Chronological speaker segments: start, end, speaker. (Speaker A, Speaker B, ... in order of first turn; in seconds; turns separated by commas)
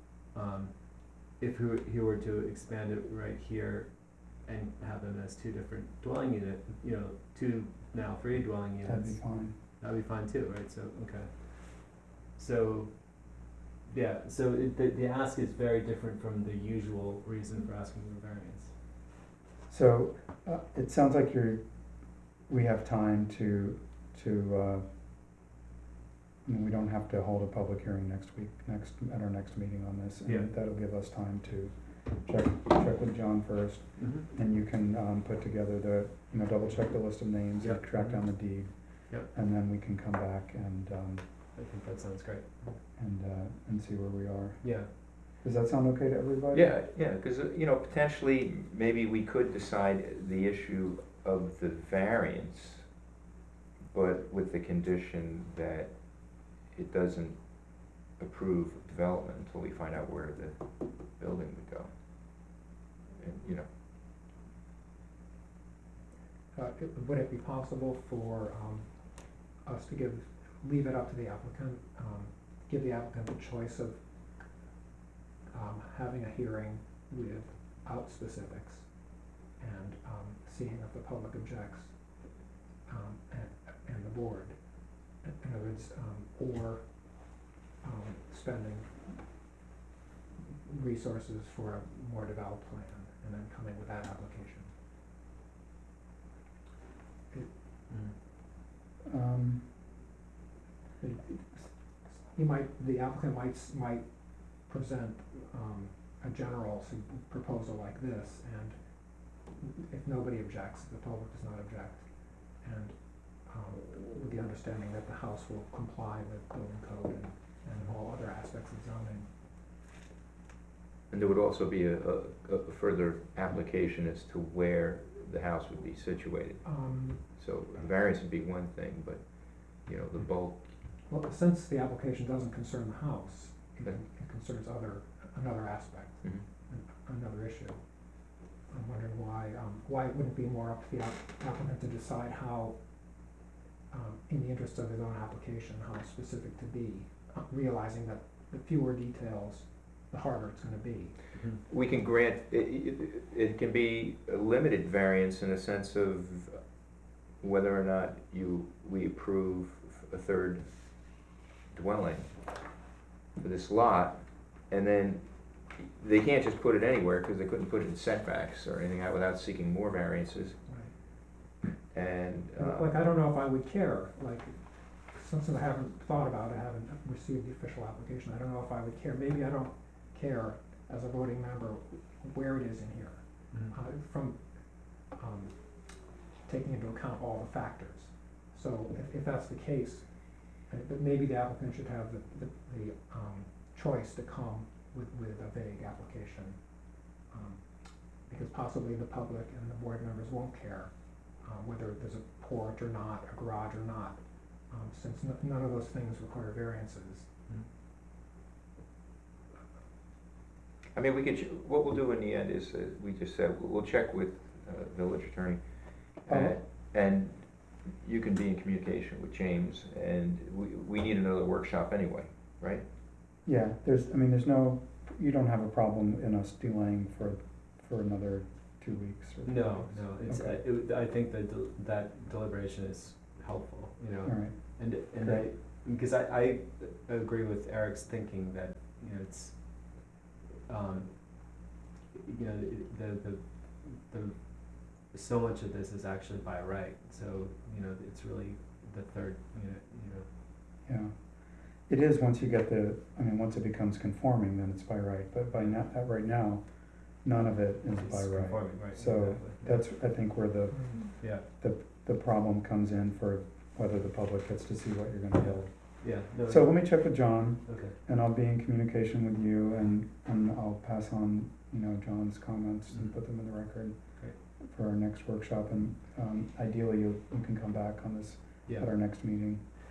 Speaker A: 0.3-18.8, Speaker B: 8.8-9.6, Speaker B: 19.7-21.6, Speaker B: 22.5-24.9, Speaker B: 26.4-41.2, Speaker A: 34.0-34.3, Speaker A: 37.6-38.6, Speaker A: 41.5-42.8, Speaker B: 43.0-46.7, Speaker A: 44.6-44.9, Speaker C: 46.5-52.9, Speaker C: 53.9-55.9, Speaker C: 56.7-57.4, Speaker C: 58.2-60.6, Speaker C: 61.1-61.9, Speaker C: 63.2-63.7, Speaker D: 66.5-68.9, Speaker D: 69.6-74.0, Speaker D: 75.5-78.9, Speaker D: 79.6-81.9, Speaker D: 82.9-84.6, Speaker D: 85.2-86.8, Speaker D: 87.8-89.0, Speaker D: 90.7-94.7, Speaker A: 97.9-98.2, Speaker B: 99.1-99.8, Speaker D: 101.0-104.1, Speaker D: 104.7-108.8, Speaker D: 109.6-112.0, Speaker D: 112.6-113.0, Speaker D: 113.5-119.3, Speaker C: 121.1-126.8, Speaker D: 126.7-127.2, Speaker C: 127.3-130.6, Speaker D: 131.1-137.8, Speaker D: 138.7-142.8, Speaker D: 143.9-151.2, Speaker A: 151.3-151.6, Speaker C: 151.7-156.6, Speaker C: 157.4-160.7, Speaker C: 161.7-162.3, Speaker C: 163.4-170.6, Speaker D: 170.7-170.9, Speaker C: 171.9-173.0, Speaker D: 172.6-174.6, Speaker D: 175.1-184.4, Speaker D: 185.1-185.6, Speaker D: 186.5-190.1, Speaker D: 190.7-196.6, Speaker D: 197.3-197.6, Speaker D: 198.3-200.9, Speaker D: 201.4-207.3, Speaker C: 210.9-217.5, Speaker B: 216.3-216.6, Speaker C: 218.0-222.8, Speaker B: 223.4-230.6, Speaker A: 229.4-240.1, Speaker B: 234.2-235.5, Speaker A: 240.7-250.3, Speaker B: 250.9-279.6, Speaker A: 257.9-259.8, Speaker D: 260.7-261.1, Speaker A: 261.2-261.4, Speaker A: 265.4-267.0, Speaker A: 267.7-268.0